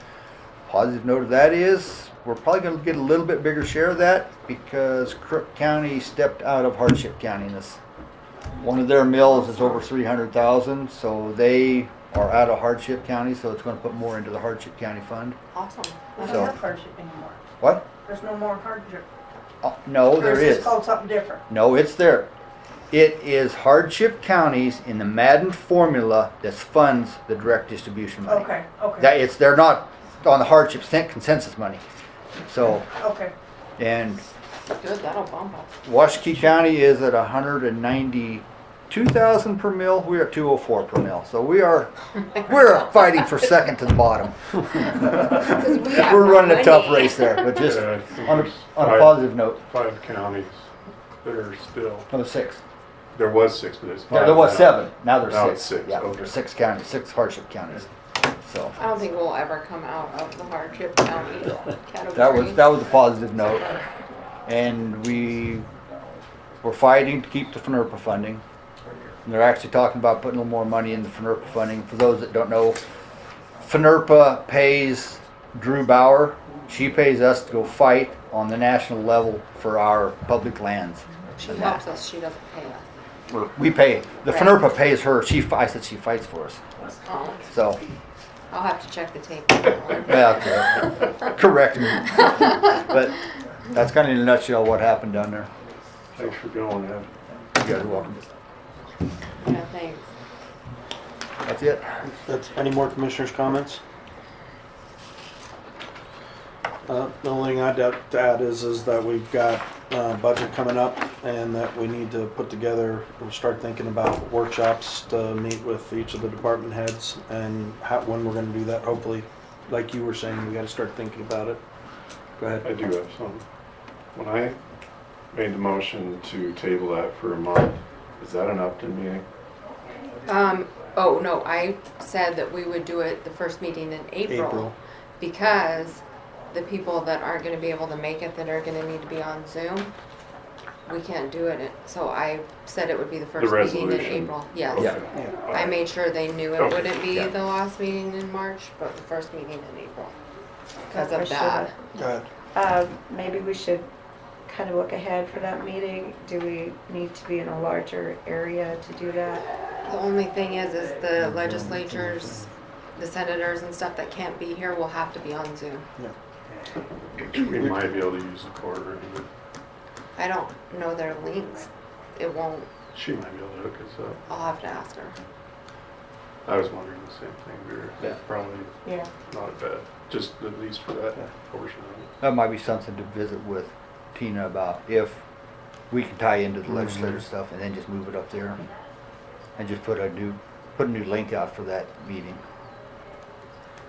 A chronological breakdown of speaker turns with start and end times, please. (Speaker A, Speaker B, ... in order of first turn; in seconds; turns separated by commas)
Speaker A: 0.7-7.8, Speaker A: 8.6-15.4, Speaker B: 15.5-16.5, Speaker A: 16.2-16.6, Speaker C: 16.2-17.4, Speaker A: 17.6-17.9, Speaker C: 18.1-19.0, Speaker A: 19.6-20.8, Speaker C: 20.2-21.4, Speaker A: 21.5-22.3, Speaker A: 22.9-31.8, Speaker C: 28.3-29.1, Speaker A: 32.5-32.9, Speaker C: 33.0-33.3, Speaker A: 33.8-34.2, Speaker B: 34.7-35.7, Speaker A: 35.9-49.6, Speaker B: 45.1-47.6, Speaker D: 47.6-50.7, Speaker D: 51.2-52.1, Speaker A: 52.1-52.6, Speaker D: 53.1-56.3, Speaker A: 54.1-58.8, Speaker B: 58.8-62.8, Speaker A: 62.1-63.7, Speaker A: 64.5-65.7, Speaker A: 66.6-68.4, Speaker A: 69.2-72.8, Speaker A: 73.6-81.8, Speaker B: 81.4-82.9, Speaker A: 83.3-86.6, Speaker B: 84.3-84.6, Speaker B: 87.0-87.5, Speaker A: 87.5-87.8, Speaker B: 88.5-91.1, Speaker A: 90.1-93.2, Speaker A: 93.7-95.5, Speaker D: 96.2-97.1, Speaker A: 97.6-98.3, Speaker B: 99.4-100.1, Speaker A: 101.5-101.8, Speaker E: 102.2-103.8, Speaker E: 106.9-121.6, Speaker E: 122.4-122.7, Speaker D: 122.6-123.4, Speaker D: 124.2-124.6, Speaker D: 125.3-129.2, Speaker B: 130.3-139.9, Speaker E: 134.3-134.8, Speaker B: 140.9-144.9, Speaker D: 143.4-145.8, Speaker B: 145.5-150.2, Speaker D: 146.5-147.3, Speaker F: 150.9-151.7, Speaker B: 150.9-151.7, Speaker E: 151.9-152.3, Speaker F: 152.5-153.9, Speaker F: 154.5-159.4, Speaker B: 159.9-165.8, Speaker D: 167.2-169.3, Speaker B: 170.2-172.7, Speaker D: 172.9-174.2, Speaker B: 174.3-175.2, Speaker D: 176.5-178.7, Speaker F: 178.8-179.1, Speaker D: 179.3-182.1, Speaker A: 182.2-185.2, Speaker A: 185.9-188.6, Speaker A: 189.6-192.4